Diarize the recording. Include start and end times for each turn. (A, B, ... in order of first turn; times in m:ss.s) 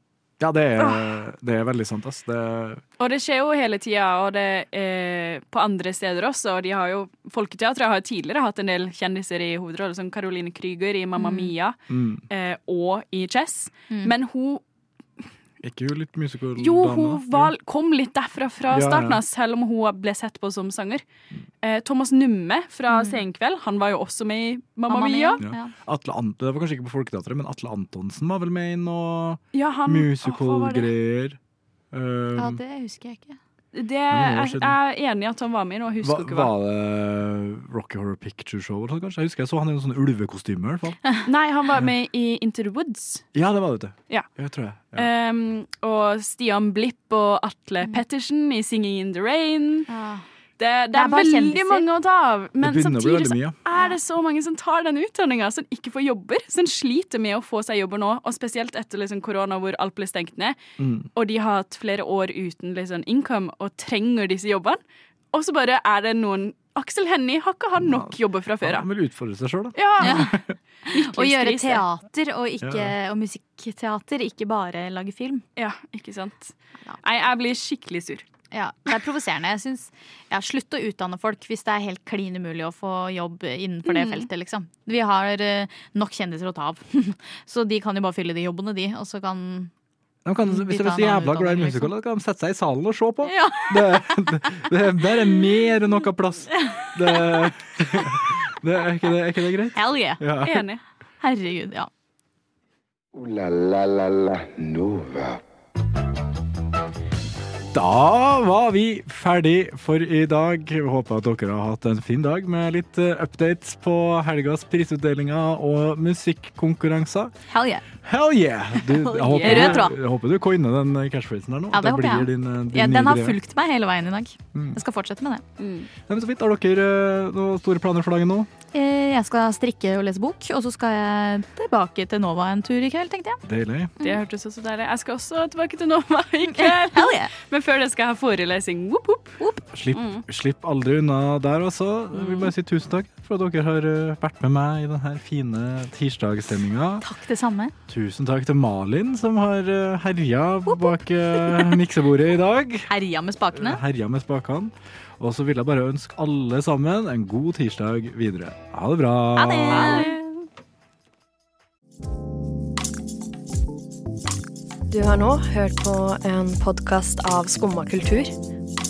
0:00.4-0:02.8 A
0:00.8-0:01.1 B
0:03.0-0:11.8 B
0:11.2-0:11.5 C
0:11.9-0:12.2 A
0:12.3-0:14.6 B
0:15.6-0:17.5 A
0:16.6-0:21.0 B
0:18.7-0:19.2 A
0:21.6-0:25.4 B
0:22.9-0:23.2 C
0:24.9-0:25.7 C
0:25.4-0:31.4 A
0:29.5-0:30.9 B
0:31.9-0:32.6 A
0:32.4-0:33.4 C
0:33.7-0:36.5 B
0:34.1-0:34.8 A
0:36.0-0:41.0 A
0:41.2-0:43.3 B
0:43.3-0:45.1 A
0:44.9-0:49.9 B
0:49.9-0:50.2 C
0:50.6-1:00.6 B
0:50.9-0:51.8 C
0:52.6-0:53.6 A
1:00.8-1:01.1 A
1:01.1-1:04.8 B
1:05.3-1:08.8 B
1:07.8-1:10.5 A
1:09.7-1:10.3 B
1:10.0-1:10.3 C
1:10.9-1:15.4 C
1:10.9-1:11.8 B
1:12.6-1:12.9 A
1:15.6-1:18.2 B
1:18.5-1:29.7 C
1:23.9-1:24.3 B
1:30.2-1:40.6 A
1:30.4-1:31.9 C
1:33.2-1:34.0 C
1:39.7-1:40.2 C
1:40.4-1:40.8 B
1:41.2-1:41.9 C
1:43.1-1:45.4 D
1:47.7-1:57.3 A
1:57.5-1:57.8 C
1:58.0-2:03.4 A
1:58.9-1:59.9 C
1:59.3-1:59.9 B
2:01.7-2:05.4 C
2:04.5-2:04.8 A
2:05.6-2:05.9 B
2:06.0-2:08.5 A
2:08.7-2:13.4 C
2:13.4-2:14.0 A
2:14.0-2:19.4 B
2:16.5-2:17.3 C
2:19.7-2:27.0 A
2:19.9-2:20.2 B
2:22.1-2:22.5 B
2:27.0-2:27.7 C
2:27.9-2:32.9 A
2:30.7-2:31.8 C
2:32.9-2:33.8 C
2:33.5-2:40.1 A
2:39.4-2:40.2 C
2:39.7-2:40.3 B
2:44.9-2:48.3 E